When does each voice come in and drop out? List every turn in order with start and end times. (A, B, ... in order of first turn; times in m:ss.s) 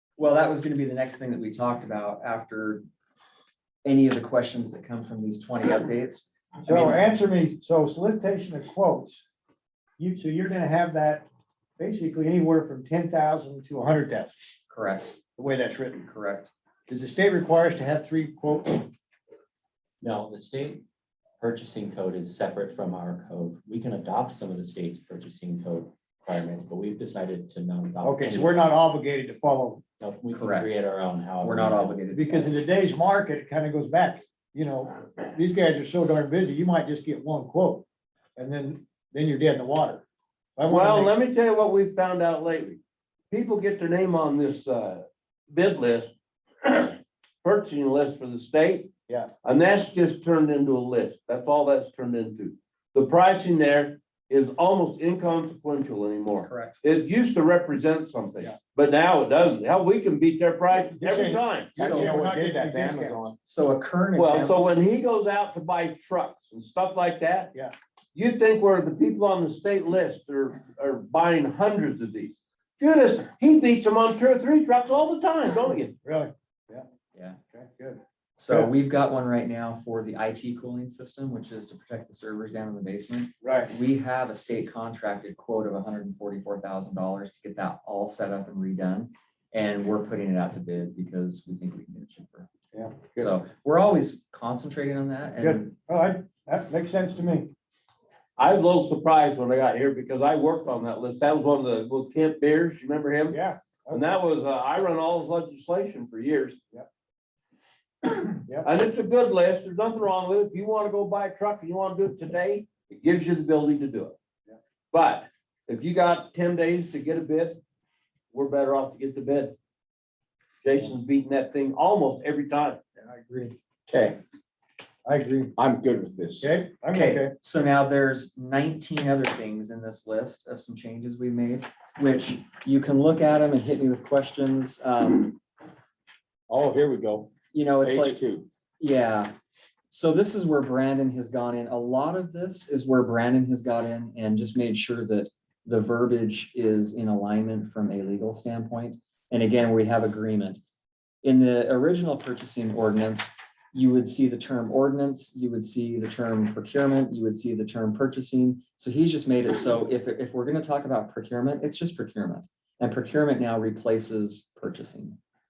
0:00.2-0:02.8 A
0:03.8-0:07.0 A
0:06.6-0:09.2 B
0:10.0-0:11.3 B
0:11.8-0:14.3 B
0:14.7-0:15.1 A
0:15.4-0:16.1 B
0:16.0-0:16.5 A
0:16.9-0:18.9 B
0:20.0-0:20.8 C
0:21.4-0:28.7 C
0:28.0-0:29.8 B
0:30.0-0:32.0 C
0:30.3-0:30.8 A
0:31.4-0:32.5 A
0:32.1-0:37.8 B
0:38.4-0:40.0 B
0:40.6-0:41.1 B
0:40.7-0:42.8 D
0:43.3-0:48.9 D
0:49.4-1:01.8 D
0:56.4-0:56.8 A
1:00.7-1:03.2 B
1:01.8-1:02.1 A
1:01.8-1:03.4 E
1:03.4-1:04.6 A
1:04.2-1:07.5 D
1:08.1-1:15.9 D
1:16.0-1:16.8 B
1:17.5-1:18.7 B
1:18.4-1:32.5 A
1:23.4-1:23.7 B
1:32.7-1:33.3 B
1:33.2-1:35.7 A
1:35.4-1:37.5 B
1:38.4-1:43.4 D
1:43.3-1:44.0 B
1:43.9-1:46.6 D
1:48.0-1:54.2 D
1:54.9-1:57.6 D
1:58.3-1:59.6 D
2:00.6-2:02.8 D
2:03.0-2:03.6 B
2:03.9-2:04.2 E
2:05.0-2:05.5 B
2:05.6-2:06.5 E
2:06.4-2:07.3 B
2:06.9-2:15.4 A
2:16.5-2:18.5 E
2:17.5-2:18.2 A
2:18.8-2:19.3 A
2:19.9-2:30.6 A
2:31.2-2:45.2 A